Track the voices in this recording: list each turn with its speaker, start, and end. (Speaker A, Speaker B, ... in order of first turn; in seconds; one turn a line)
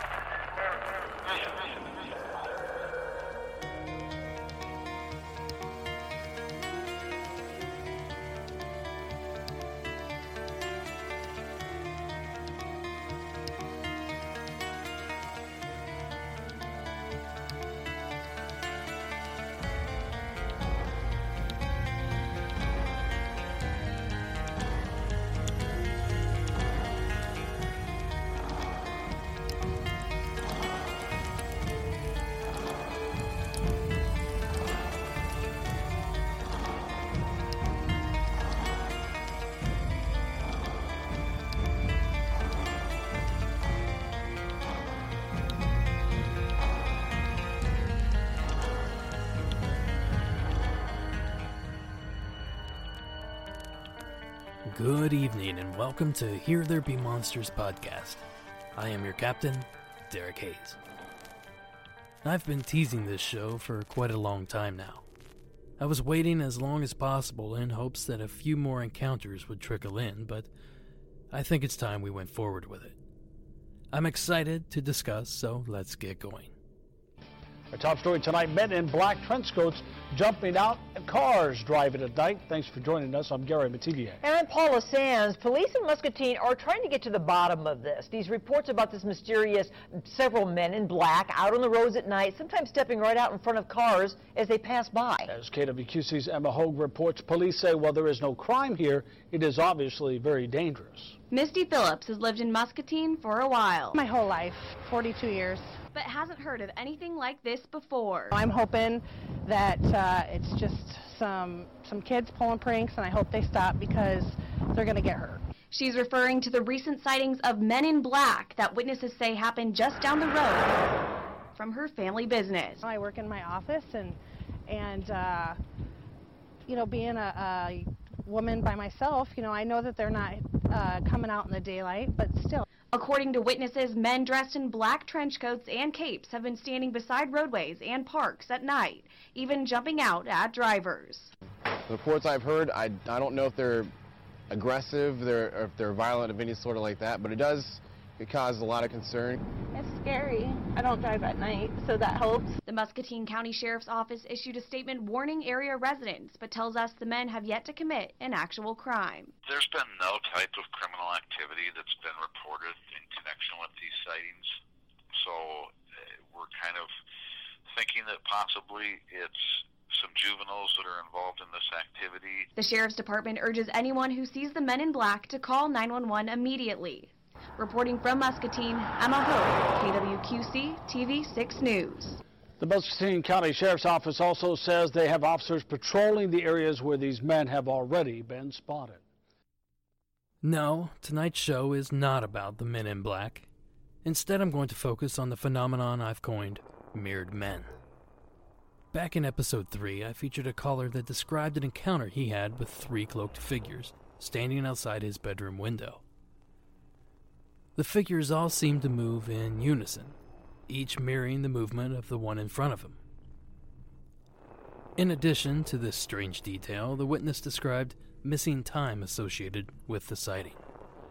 Speaker A: 54.6-58.2
Speaker A: 58.8-60.8
Speaker A: 62.2-65.0
Speaker A: 65.8-70.5
Speaker A: 71.3-73.0
Speaker A: 73.9-76.5
Speaker B: 77.7-84.2
Speaker C: 84.2-95.3
Speaker B: 95.3-101.2
Speaker D: 101.3-104.0
Speaker E: 103.9-105.8
Speaker D: 105.9-108.3
Speaker E: 108.3-115.4
Speaker D: 115.7-120.8
Speaker D: 121.5-122.8
Speaker E: 122.8-125.6
Speaker E: 126.7-132.6
Speaker D: 132.9-141.3
Speaker F: 141.9-143.9
Speaker F: 144.5-149.4
Speaker G: 149.7-152.6
Speaker D: 152.7-159.3
Speaker H: 159.4-164.5
Speaker H: 165.1-165.7
Speaker H: 166.3-166.9
Speaker H: 167.7-172.5
Speaker D: 172.6-182.2
Speaker B: 182.6-189.0
Speaker A: 190.4-193.5
Speaker A: 194.0-197.8
Speaker A: 198.9-206.0
Speaker A: 207.8-210.2
Speaker A: 210.7-213.0
Speaker A: 215.0-220.6